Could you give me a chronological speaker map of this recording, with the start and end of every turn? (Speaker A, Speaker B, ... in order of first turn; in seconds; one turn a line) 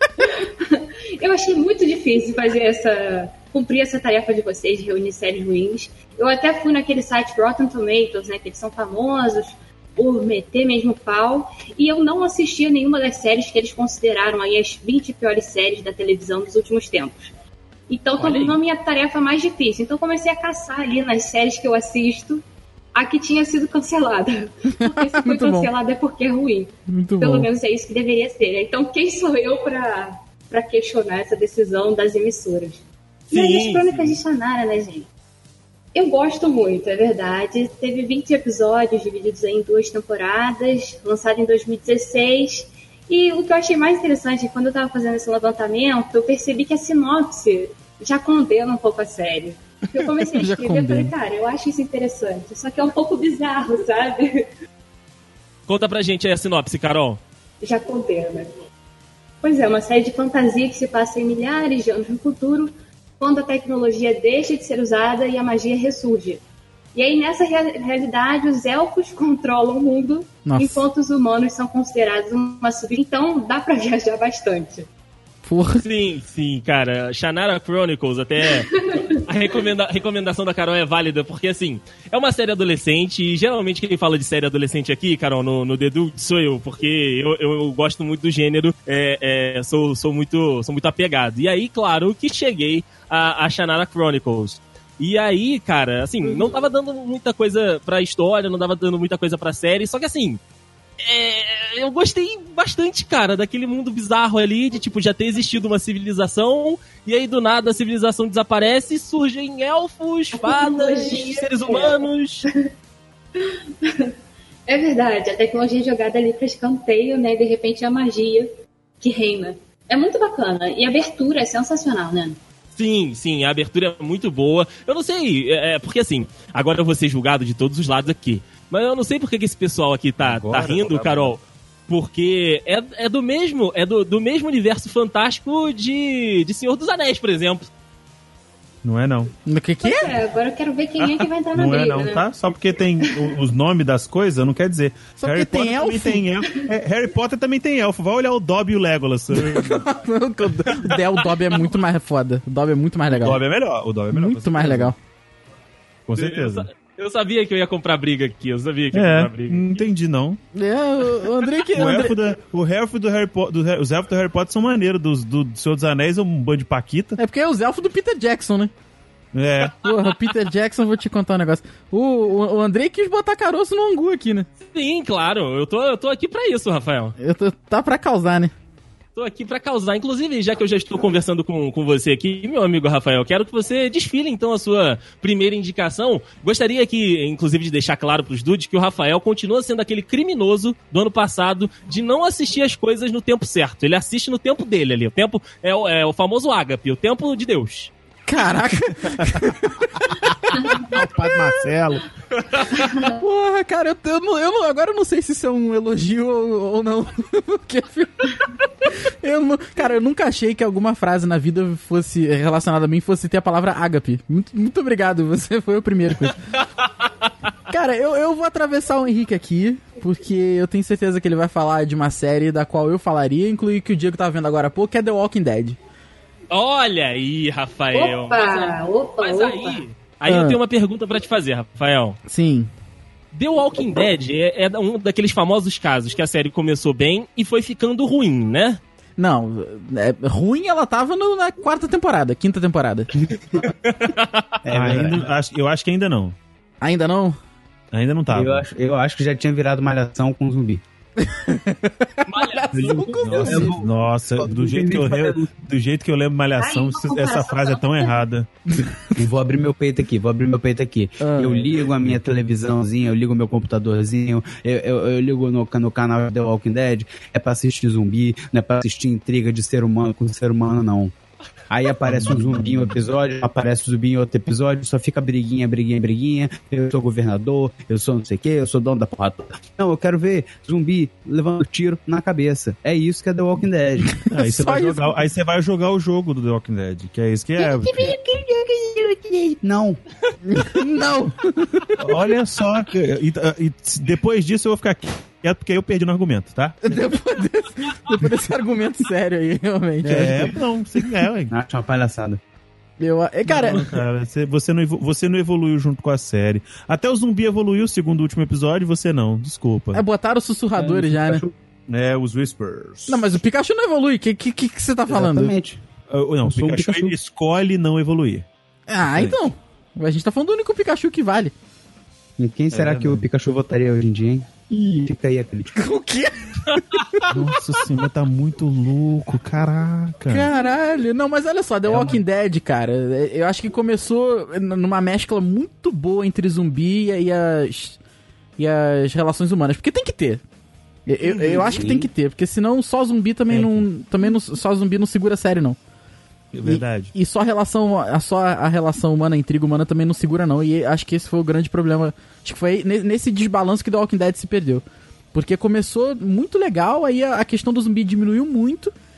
Speaker A: 0.2-17.1
Speaker A: 17.9-22.4
Speaker B: 18.1-18.6
Speaker A: 22.9-35.1
Speaker C: 24.7-25.7
Speaker C: 26.9-27.5
Speaker B: 33.3-34.2
Speaker A: 35.9-54.5
Speaker C: 50.1-51.1
Speaker B: 55.7-57.2
Speaker A: 57.6-58.5
Speaker A: 59.4-66.4
Speaker A: 66.9-74.9
Speaker C: 70.5-70.9
Speaker C: 75.4-75.8
Speaker B: 75.8-100.4
Speaker A: 78.6-79.2
Speaker A: 96.2-96.6
Speaker B: 101.0-112.5
Speaker A: 110.3-112.0
Speaker A: 113.4-114.1
Speaker A: 114.7-118.5
Speaker A: 119.0-122.4
Speaker B: 122.7-137.7
Speaker D: 130.2-131.3
Speaker D: 138.8-139.3
Speaker C: 139.4-140.1
Speaker A: 139.8-142.3
Speaker D: 141.0-149.9
Speaker A: 143.0-143.4
Speaker C: 145.2-146.2
Speaker C: 149.3-153.4
Speaker D: 153.1-154.9
Speaker C: 154.1-154.9
Speaker D: 156.1-156.7
Speaker B: 156.2-159.8
Speaker D: 158.9-160.4
Speaker C: 160.5-162.2
Speaker D: 161.7-167.2
Speaker C: 167.2-168.7
Speaker D: 169.3-169.8
Speaker C: 169.8-174.5
Speaker B: 174.7-177.2
Speaker C: 177.2-178.5
Speaker B: 179.2-197.9
Speaker C: 198.3-200.6
Speaker D: 199.0-202.0
Speaker A: 200.5-200.8
Speaker A: 202.8-203.2
Speaker C: 203.1-216.4
Speaker B: 216.3-216.6
Speaker C: 217.7-225.8
Speaker B: 226.5-232.2
Speaker A: 227.9-229.8
Speaker C: 230.3-230.6
Speaker C: 232.3-232.7
Speaker B: 233.3-238.8
Speaker C: 239.2-243.1
Speaker E: 243.1-243.7
Speaker B: 243.9-244.5
Speaker E: 244.6-245.2
Speaker D: 244.7-246.3
Speaker C: 246.8-247.4
Speaker D: 247.9-248.6
Speaker E: 248.3-250.8
Speaker C: 251.2-253.8
Speaker B: 252.3-253.6
Speaker E: 252.8-255.5
Speaker D: 253.2-258.5
Speaker A: 256.6-258.2
Speaker C: 258.8-259.1
Speaker E: 259.1-271.1
Speaker C: 261.2-261.7
Speaker E: 271.7-284.2
Speaker D: 272.0-272.9
Speaker C: 284.2-285.2
Speaker D: 284.2-288.2
Speaker C: 287.6-289.1
Speaker E: 289.6-290.0
Speaker C: 290.4-292.0
Speaker D: 292.0-296.8
Speaker C: 296.8-301.1
Speaker D: 300.0-301.5
Speaker E: 301.5-302.4
Speaker C: 303.0-304.0
Speaker D: 303.5-310.0
Speaker C: 309.9-311.4
Speaker E: 310.8-311.5
Speaker D: 310.9-313.3
Speaker C: 313.1-315.5
Speaker E: 315.1-315.8
Speaker D: 316.1-318.5
Speaker E: 316.4-317.1
Speaker C: 318.9-321.5
Speaker D: 319.1-319.4
Speaker E: 322.4-325.8
Speaker D: 322.7-323.2
Speaker C: 325.7-327.3
Speaker B: 326.7-327.2
Speaker D: 327.3-330.5
Speaker C: 330.3-338.0
Speaker C: 338.6-340.4
Speaker C: 341.1-345.8
Speaker B: 341.2-341.6
Speaker E: 341.6-342.1
Speaker D: 343.5-343.8
Speaker D: 346.5-347.1
Speaker C: 346.6-358.9